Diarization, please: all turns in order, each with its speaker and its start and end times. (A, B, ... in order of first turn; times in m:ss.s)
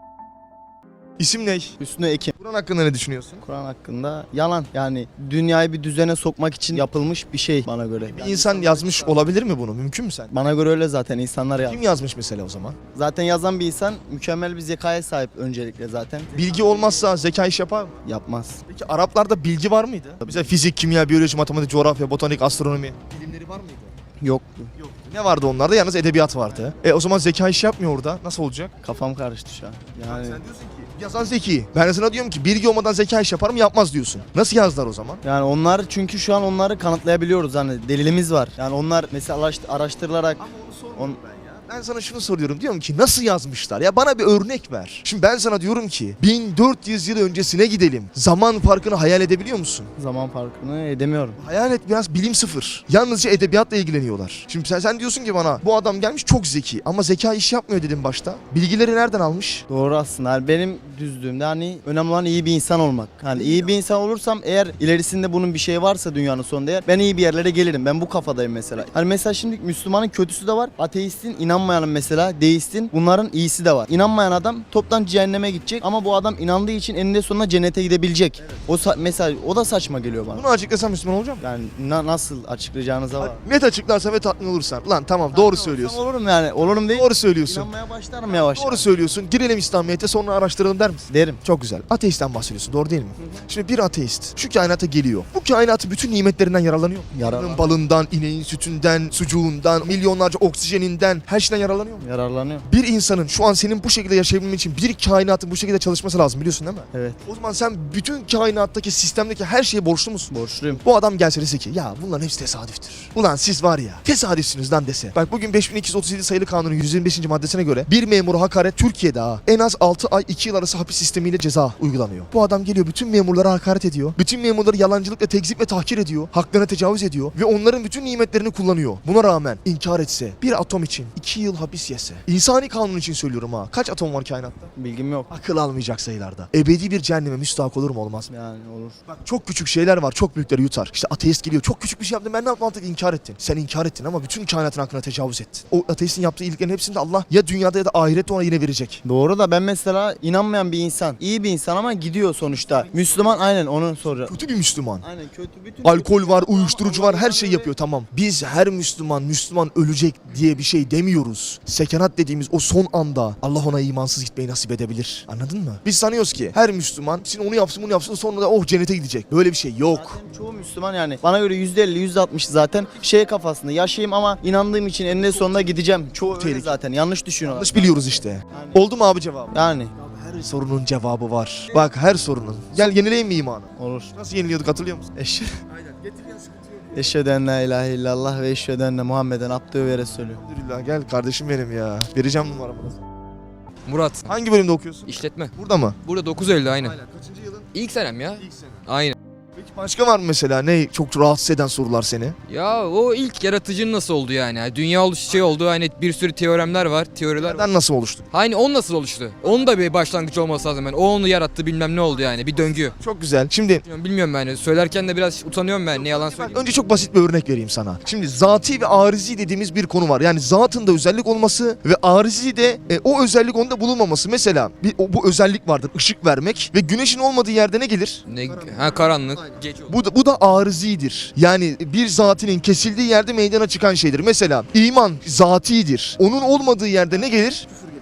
0:01.2-0:01.8 A
0:01.8-0:02.3 B
0:02.4-0:03.4 A
0:03.4-0:09.3 B
0:08.0-0:10.3 A
0:10.3-0:11.8 B
0:11.7-0:12.8 A
0:12.9-0:16.4 B
0:16.3-0:18.0 A
0:18.0-0:18.6 B
0:18.7-0:23.9 A
0:20.2-0:20.5 B
0:24.2-0:24.7 B
0:24.8-0:28.7 A
0:28.8-0:30.4 B
0:30.1-0:35.2 A
0:35.2-0:40.4 B
0:40.4-0:49.9 A
0:50.0-0:51.4 B
0:51.4-0:59.6 A
0:59.7-1:20.5 B
1:03.3-1:03.7 A
1:20.3-1:21.4 A
1:21.4-1:23.4 B
1:23.2-1:26.0 A
1:25.3-1:28.9 B
1:26.9-1:27.7 A
1:28.3-1:42.0 A
1:31.1-1:31.4 B
1:37.2-1:37.7 B
1:42.0-1:42.7 B
1:42.7-2:14.7 A
1:46.9-1:47.2 B
1:50.3-1:50.8 B
2:14.8-2:15.3 B
2:15.3-2:18.3 A
2:18.3-2:19.0 B
2:19.1-2:29.0 A
2:29.0-2:34.4 B
2:32.5-2:33.5 A
2:34.3-2:35.0 A
2:35.0-2:37.7 B
2:35.8-2:50.2 A
2:49.9-2:58.8 B
2:55.1-2:55.8 A
2:56.3-2:56.8 A
2:57.4-3:05.1 A
2:59.5-2:59.9 B
3:03.8-3:04.1 B
3:05.2-3:05.6 B
3:05.7-3:07.0 A
3:06.9-3:10.4 B
3:10.3-3:13.0 A
3:13.9-3:14.3 C
3:14.3-3:16.0 A
3:15.0-3:15.5 C
3:16.0-3:17.0 C
3:16.7-3:17.7 A
3:17.7-3:19.2 C
3:18.4-3:18.8 A
3:19.6-3:22.4 A
3:22.5-3:27.7 C
3:27.4-3:28.3 A
3:28.3-3:33.0 C
3:33.0-3:33.8 A
3:33.8-3:36.7 C
3:35.9-3:48.7 A
3:48.3-3:49.9 C
3:49.9-3:57.7 A